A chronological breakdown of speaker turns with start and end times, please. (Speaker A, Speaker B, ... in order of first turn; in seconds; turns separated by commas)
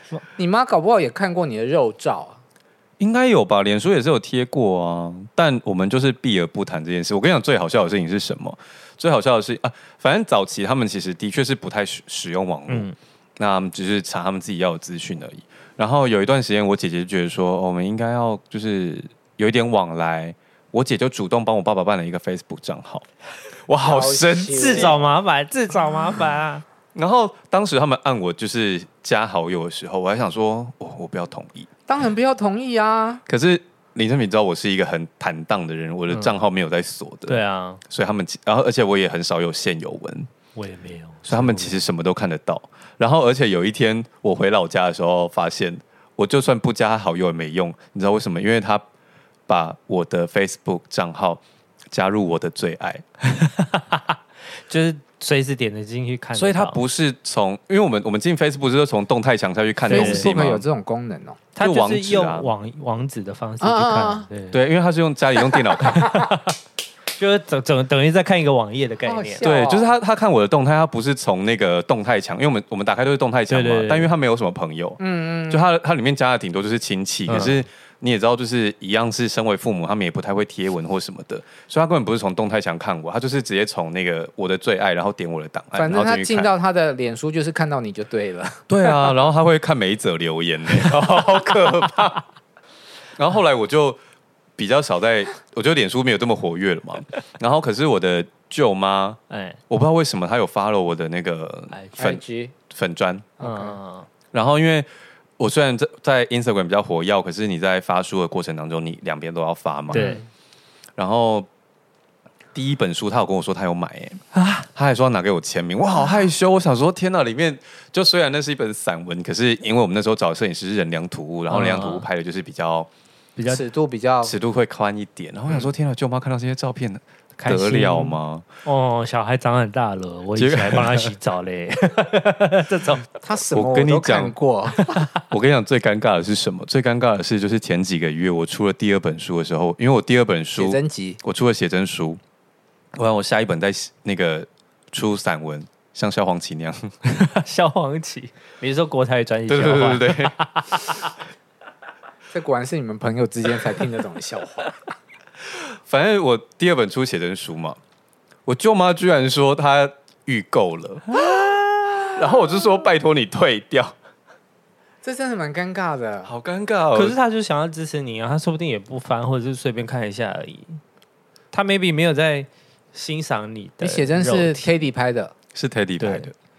Speaker A: 0.3-2.4, Speaker B: 3.0-23.1, Speaker C: 12.7-12.9, Speaker B: 23.7-25.0, Speaker A: 23.8-25.0, Speaker C: 24.4-26.6, Speaker B: 26.9-31.7, Speaker A: 31.9-33.2, Speaker B: 33.3-40.3, Speaker C: 36.1-36.4, Speaker C: 37.3-37.8, Speaker C: 40.5-41.8, Speaker B: 41.3-48.9, Speaker B: 49.5-53.0, Speaker C: 53.3-56.8, Speaker B: 56.4-60.6, Speaker C: 59.9-60.3, Speaker A: 59.9-61.4, Speaker C: 61.5-64.6, Speaker B: 61.6-62.5, Speaker A: 63.6-64.3, Speaker B: 64.5-66.2, Speaker C: 65.8-66.5, Speaker C: 67.2-69.5, Speaker A: 69.0-69.9, Speaker B: 69.4-86.5, Speaker C: 73.5-74.1, Speaker A: 75.0-75.7, Speaker C: 77.3-77.6, Speaker A: 85.8-89.1, Speaker B: 88.7-92.2, Speaker B: 93.2-94.0, Speaker B: 94.6-103.3, Speaker C: 99.3-99.6, Speaker C: 101.7-102.1, Speaker A: 102.0-102.5, Speaker A: 103.4-103.8, Speaker C: 103.4-104.1, Speaker B: 104.3-104.9, Speaker B: 105.4-110.2, Speaker C: 109.9-110.2, Speaker A: 109.9-110.2, Speaker B: 111.0-111.5, Speaker B: 112.5-114.2, Speaker C: 114.3-114.7, Speaker B: 114.7-122.9, Speaker C: 121.5-122.1, Speaker C: 123.4-123.6, Speaker A: 123.5-124.3, Speaker B: 124.2-128.5, Speaker C: 127.4-133.1, Speaker B: 130.4-131.1, Speaker A: 133.2-134.9, Speaker B: 133.5-134.3, Speaker C: 134.7-135.1, Speaker B: 135.3-142.2, Speaker A: 140.6-141.2, Speaker B: 142.9-146.9, Speaker C: 147.1-151.1, Speaker B: 149.5-150.3, Speaker A: 152.3-154.8, Speaker B: 155.9-157.8, Speaker B: 158.5-161.1, Speaker B: 162.0-163.9, Speaker A: 165.0-166.3, Speaker B: 166.2-167.2, Speaker C: 166.9-170.8, Speaker C: 171.5-174.7, Speaker A: 173.8-175.3, Speaker B: 175.5-176.3, Speaker C: 176.0-176.3